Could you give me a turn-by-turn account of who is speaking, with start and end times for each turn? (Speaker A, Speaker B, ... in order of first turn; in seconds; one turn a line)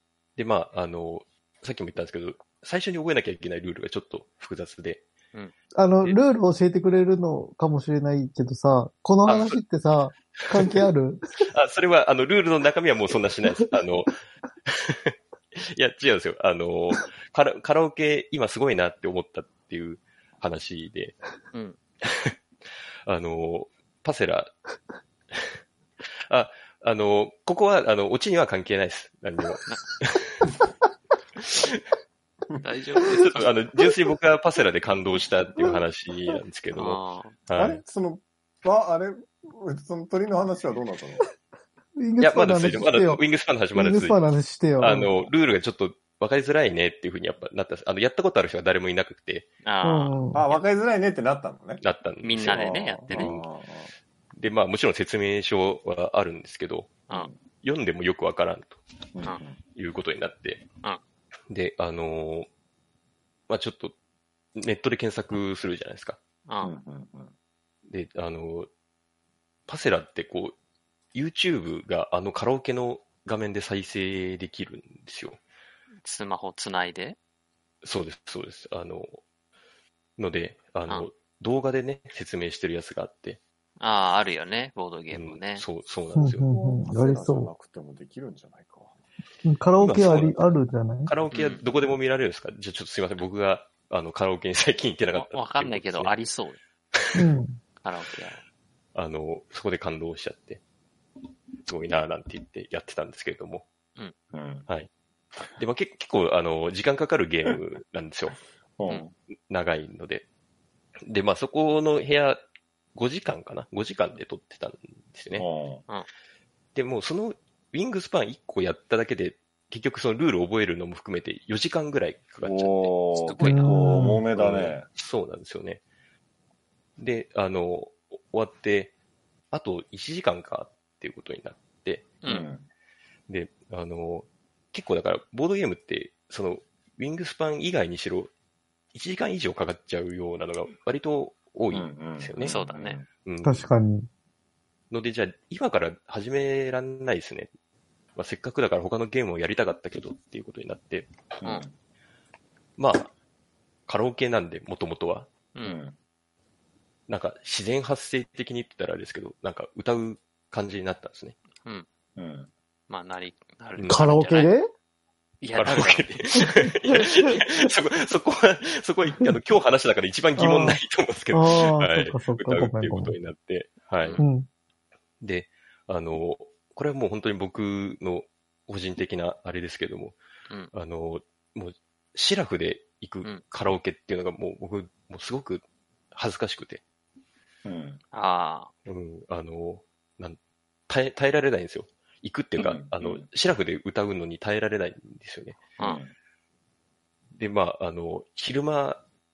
Speaker A: 0.4-5.0
Speaker B: 5.7-11.4
Speaker A: 9.2-9.6
Speaker A: 10.4-10.8
Speaker A: 11.4-21.1
Speaker A: 22.0-22.3
Speaker A: 23.1-24.5
Speaker A: 26.3-30.5
Speaker A: 31.4-31.8
Speaker C: 32.6-33.5
Speaker A: 33.1-37.8
Speaker C: 36.7-37.4
Speaker D: 37.5-41.3
Speaker B: 42.0-43.2
Speaker A: 42.2-44.2
Speaker B: 43.7-45.1
Speaker A: 44.8-49.5
Speaker C: 49.6-50.5
Speaker B: 49.8-50.4
Speaker D: 50.3-51.8
Speaker A: 51.8-53.4
Speaker C: 52.2-53.4
Speaker D: 52.4-53.9
Speaker A: 54.4-56.9
Speaker D: 57.1-57.4
Speaker A: 57.6-58.8
Speaker D: 59.1-59.6
Speaker A: 59.7-60.6
Speaker A: 61.5-62.5
Speaker A: 63.5-63.9
Speaker A: 64.5-66.2
Speaker C: 66.5-66.7
Speaker D: 66.6-67.3
Speaker A: 67.9-68.7
Speaker A: 69.7-70.5
Speaker A: 71.1-75.4
Speaker C: 76.0-77.2
Speaker A: 77.8-79.2
Speaker A: 80.2-83.4
Speaker C: 83.8-85.7
Speaker A: 85.1-86.5
Speaker B: 86.1-87.5
Speaker D: 86.5-88.9
Speaker B: 89.4-91.1
Speaker A: 89.8-90.5
Speaker A: 91.0-96.1
Speaker C: 91.3-91.6
Speaker C: 95.1-96.6
Speaker A: 96.9-97.2
Speaker B: 97.1-97.6
Speaker C: 97.8-98.4
Speaker A: 98.9-100.6
Speaker A: 101.7-103.7
Speaker D: 104.3-104.7
Speaker A: 105.5-108.4
Speaker D: 108.8-109.1
Speaker A: 109.5-110.3
Speaker A: 111.0-112.4
Speaker A: 112.9-115.5
Speaker D: 115.3-115.8
Speaker A: 116.7-122.9
Speaker D: 122.4-124.8
Speaker C: 123.1-123.8
Speaker B: 123.4-124.2
Speaker A: 124.3-125.8
Speaker A: 127.0-128.9
Speaker A: 129.5-132.1
Speaker D: 132.2-132.6
Speaker A: 133.3-138.3
Speaker A: 138.9-142.6
Speaker D: 141.7-143.1
Speaker C: 142.4-143.0
Speaker A: 143.2-143.7
Speaker B: 143.4-144.1
Speaker A: 144.9-147.5
Speaker A: 148.2-151.1
Speaker D: 151.4-151.7
Speaker A: 152.8-153.1
Speaker A: 153.9-155.3
Speaker D: 155.6-155.9
Speaker A: 157.1-161.4
Speaker D: 162.2-162.5
Speaker C: 162.9-164.5
Speaker A: 163.8-164.1
Speaker B: 163.9-164.7
Speaker C: 165.4-166.4
Speaker A: 165.5-174.2
Speaker B: 166.4-167.4
Speaker B: 170.4-170.8
Speaker B: 171.3-173.2
Speaker B: 174.2-174.5
Speaker A: 175.2-180.2
Speaker A: 180.7-186.8
Speaker D: 187.6-188.0
Speaker C: 188.1-188.7
Speaker A: 188.8-195.6
Speaker D: 192.6-193.2
Speaker D: 195.8-196.1
Speaker A: 197.3-199.0